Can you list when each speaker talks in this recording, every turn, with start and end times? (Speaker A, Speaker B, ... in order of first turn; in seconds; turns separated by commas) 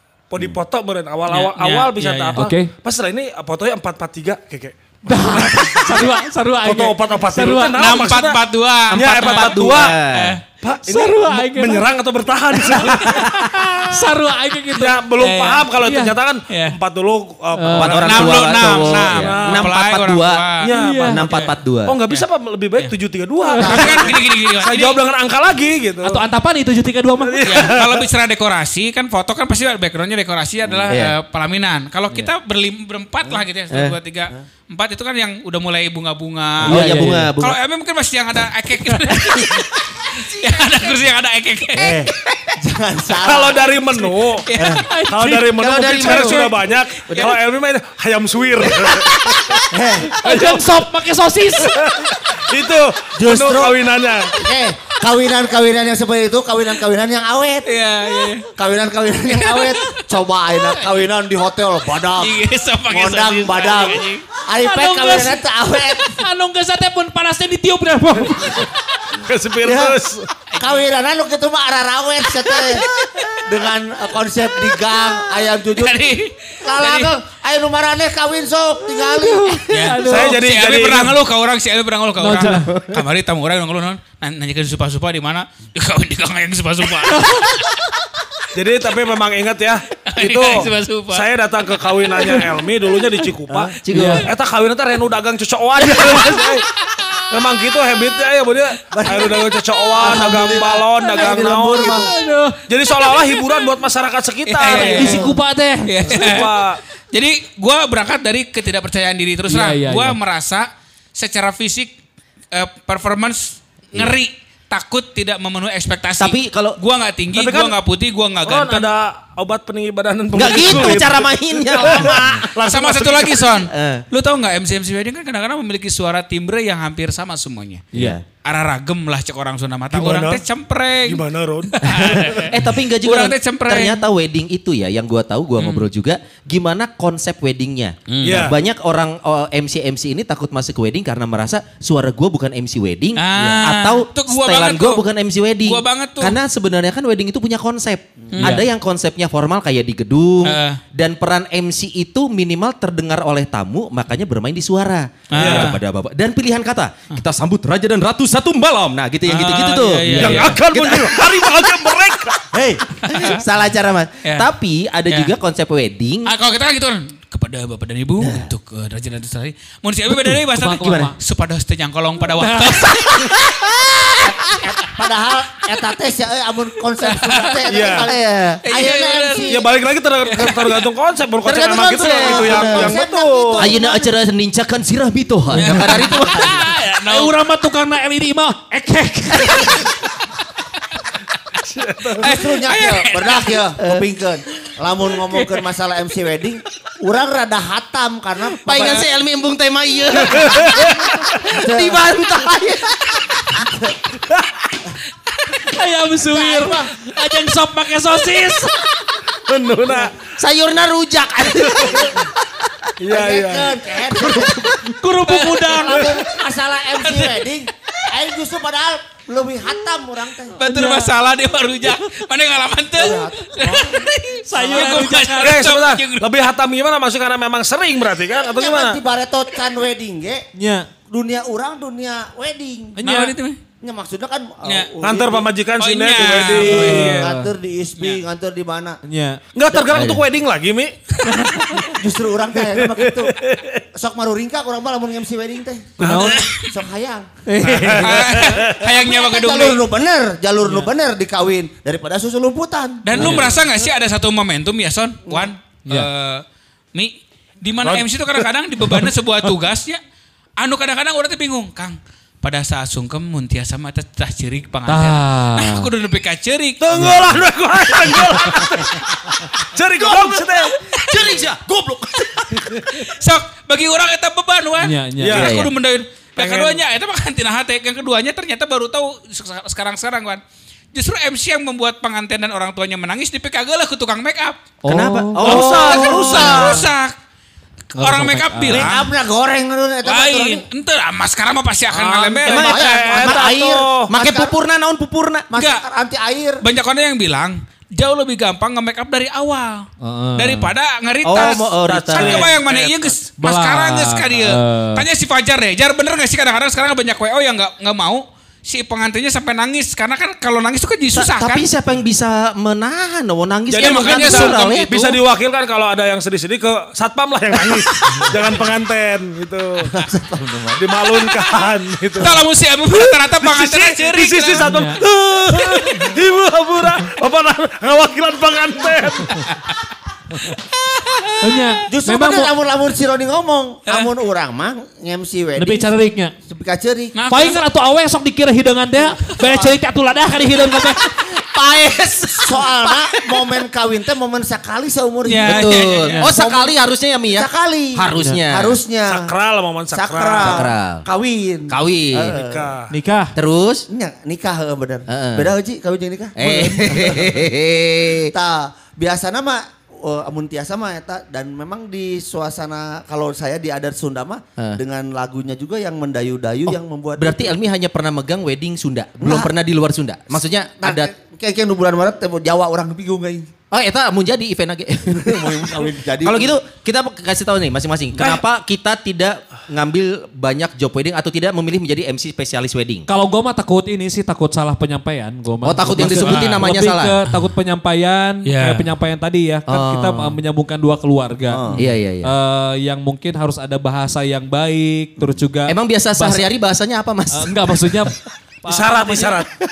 Speaker A: 0.3-6.1, Speaker B: 1.3-2.4, Speaker C: 2.4-2.7, Speaker C: 5.1-7.8, Speaker A: 6.6-8.4, Speaker B: 7.8-10.4, Speaker A: 8.9-10.0, Speaker D: 8.9-10.4, Speaker A: 10.6-13.4, Speaker C: 10.9-11.9, Speaker C: 12.7-15.0, Speaker A: 14.7-19.7, Speaker B: 15.2-15.7, Speaker C: 15.8-16.1, Speaker C: 17.6-18.1, Speaker D: 17.7-20.5, Speaker B: 18.0-20.7, Speaker A: 20.6-26.2, Speaker C: 20.7-21.2, Speaker D: 21.1-22.0, Speaker C: 23.4-23.8, Speaker E: 23.6-24.2, Speaker B: 23.6-25.0, Speaker C: 26.0-27.7, Speaker A: 27.2-28.1, Speaker B: 27.4-42.1, Speaker D: 30.7-31.1, Speaker D: 33.7-34.0, Speaker D: 36.6-37.6, Speaker C: 36.7-37.3, Speaker E: 39.3-39.6, Speaker E: 41.8-44.0, Speaker A: 43.2-50.7, Speaker B: 44.5-45.0, Speaker E: 44.6-44.9, Speaker C: 44.6-45.4, Speaker D: 45.6-46.5, Speaker C: 46.0-46.4, Speaker B: 47.0-47.4, Speaker C: 49.2-51.9, Speaker E: 49.7-50.2, Speaker A: 51.6-54.4, Speaker E: 53.2-53.8, Speaker E: 54.4-57.7, Speaker B: 57.6-58.5, Speaker E: 58.6-62.4, Speaker B: 59.3-60.0, Speaker B: 62.2-64.2, Speaker E: 62.9-66.2, Speaker C: 64.6-65.4, Speaker C: 66.0-69.1, Speaker A: 69.2-70.3, Speaker E: 69.6-70.0, Speaker B: 70.5-70.9, Speaker E: 70.6-72.8, Speaker B: 72.5-73.4, Speaker E: 73.5-75.9, Speaker B: 75.8-77.1, Speaker E: 76.6-79.7, Speaker C: 79.2-80.4, Speaker B: 79.7-87.8, Speaker A: 80.0-81.2, Speaker C: 82.2-82.7, Speaker D: 82.4-83.0, Speaker C: 87.1-87.5, Speaker A: 88.5-96.7, Speaker B: 90.1-91.3, Speaker D: 93.8-94.3, Speaker C: 93.9-94.3, Speaker B: 96.2-97.2, Speaker A: 97.3-102.0, Speaker E: 98.9-102.1, Speaker C: 100.1-100.6, Speaker C: 101.7-102.6, Speaker A: 102.7-105.2, Speaker B: 104.5-105.3, Speaker C: 104.7-106.3, Speaker E: 104.8-105.4, Speaker B: 105.8-111.9, Speaker A: 106.1-106.8, Speaker C: 109.5-110.2, Speaker B: 112.5-118.9, Speaker D: 116.2-116.8, Speaker A: 117.3-117.8, Speaker A: 118.5-123.5, Speaker D: 120.3-122.4, Speaker B: 121.8-127.9, Speaker D: 123.7-124.0, Speaker D: 127.9-128.2, Speaker B: 128.4-134.0, Speaker A: 129.9-130.4, Speaker A: 131.1-132.5, Speaker D: 131.9-161.4, Speaker B: 135.6-135.9, Speaker B: 138.1-138.5, Speaker A: 138.2-138.6, Speaker B: 143.2-145.0, Speaker B: 145.6-146.4, Speaker B: 148.3-148.6, Speaker B: 150.4-150.8, Speaker B: 155.3-155.8, Speaker A: 155.3-155.7, Speaker B: 159.3-160.6, Speaker A: 160.2-162.5, Speaker E: 162.5-163.3, Speaker B: 163.1-163.4, Speaker D: 163.2-166.3, Speaker B: 166.3-174.2, Speaker D: 168.2-168.5, Speaker D: 170.3-171.1, Speaker C: 170.6-171.2, Speaker C: 172.2-173.7, Speaker E: 174.2-179.7, Speaker B: 177.0-178.1, Speaker A: 177.7-178.1, Speaker B: 178.7-179.5, Speaker A: 179.4-183.7, Speaker B: 180.2-180.8, Speaker E: 181.4-184.1, Speaker D: 183.6-186.6, Speaker C: 185.5-186.1, Speaker B: 185.6-187.3, Speaker E: 185.9-186.7, Speaker C: 187.1-189.9, Speaker B: 189.5-189.8, Speaker A: 191.7-192.3, Speaker B: 192.2-193.6, Speaker E: 192.2-199.1, Speaker D: 198.7-203.7, Speaker B: 198.8-199.0, Speaker A: 200.3-201.1, Speaker E: 200.3-202.1, Speaker E: 203.6-204.0, Speaker C: 205.6-208.9, Speaker E: 206.3-206.9, Speaker A: 209.3-210.2, Speaker D: 210.1-212.3, Speaker E: 211.8-212.3, Speaker A: 213.0-213.8, Speaker E: 213.1-214.9, Speaker C: 214.9-216.1, Speaker B: 215.3-216.2, Speaker E: 215.6-220.6, Speaker B: 217.0-217.4, Speaker B: 220.6-226.3, Speaker C: 220.6-221.1, Speaker E: 222.9-225.0, Speaker C: 224.5-225.7, Speaker A: 225.4-229.0, Speaker E: 228.5-230.4, Speaker C: 230.6-230.9, Speaker E: 231.1-233.0, Speaker C: 233.0-233.4, Speaker B: 233.0-233.6, Speaker E: 233.8-235.5, Speaker B: 234.6-234.9, Speaker A: 235.0-237.2, Speaker B: 235.8-237.3, Speaker E: 236.3-239.0, Speaker C: 236.6-237.5, Speaker C: 239.1-239.4, Speaker A: 239.6-240.9, Speaker E: 239.7-240.1, Speaker D: 239.9-240.2, Speaker B: 241.2-241.6, Speaker C: 241.4-241.8, Speaker E: 241.9-243.4, Speaker A: 242.8-243.8, Speaker E: 243.9-247.3, Speaker A: 246.0-246.4, Speaker C: 246.0-246.5, Speaker B: 246.3-246.8, Speaker C: 247.5-248.5, Speaker A: 247.6-248.8, Speaker B: 248.0-249.8, Speaker E: 248.8-253.4, Speaker C: 250.6-250.9, Speaker B: 253.0-260.0, Speaker C: 253.2-253.5, Speaker A: 253.2-253.5, Speaker A: 257.8-258.5, Speaker B: 260.6-267.1, Speaker C: 264.9-265.9, Speaker A: 266.8-270.8, Speaker B: 270.2-271.4, Speaker D: 271.0-272.8, Speaker B: 272.9-280.4, Speaker C: 274.8-275.5, Speaker A: 275.2-275.6, Speaker D: 275.3-275.7, Speaker A: 276.4-276.8, Speaker B: 280.9-284.6, Speaker C: 284.8-285.8, Speaker D: 284.9-286.2, Speaker A: 285.4-286.9, Speaker E: 285.4-286.9, Speaker B: 285.6-287.1, Speaker C: 288.0-289.0, Speaker B: 288.0-289.1, Speaker E: 288.7-290.6, Speaker B: 290.1-293.0, Speaker A: 291.9-294.1, Speaker D: 292.4-295.5, Speaker E: 292.5-294.5, Speaker E: 295.5-296.6, Speaker B: 295.6-295.9, Speaker B: 296.6-311.6, Speaker C: 300.0-300.7, Speaker D: 301.2-302.6, Speaker A: 301.3-303.1, Speaker C: 303.4-305.1, Speaker D: 311.1-315.2, Speaker A: 313.7-319.9, Speaker B: 313.8-314.6, Speaker E: 319.9-320.8, Speaker A: 320.8-329.4, Speaker B: 322.2-324.7, Speaker C: 324.6-325.0, Speaker C: 325.5-326.1, Speaker B: 330.4-331.7, Speaker C: 331.4-332.5, Speaker E: 331.9-335.9, Speaker C: 335.6-336.4, Speaker E: 336.4-337.2, Speaker B: 337.1-337.6, Speaker C: 337.3-341.3, Speaker E: 339.1-339.8, Speaker E: 342.2-346.8, Speaker B: 345.3-346.3, Speaker D: 345.5-348.8, Speaker E: 347.3-349.3, Speaker A: 349.1-350.6, Speaker E: 349.9-352.7, Speaker D: 350.4-351.0, Speaker D: 351.7-352.4, Speaker A: 352.3-352.9, Speaker C: 352.9-353.3, Speaker D: 353.4-353.9, Speaker E: 353.9-357.4, Speaker D: 355.1-355.5, Speaker D: 356.4-358.3, Speaker E: 358.3-367.6, Speaker D: 366.7-371.1, Speaker E: 369.2-369.5, Speaker E: 370.3-373.5, Speaker D: 373.7-383.1, Speaker E: 375.1-376.6, Speaker C: 383.1-396.5, Speaker D: 385.6-387.1, Speaker B: 386.2-386.6, Speaker B: 388.4-388.9, Speaker D: 389.7-390.4, Speaker E: 391.5-391.8, Speaker D: 391.7-392.3, Speaker D: 395.7-398.1, Speaker C: 397.3-399.4, Speaker A: 398.7-399.5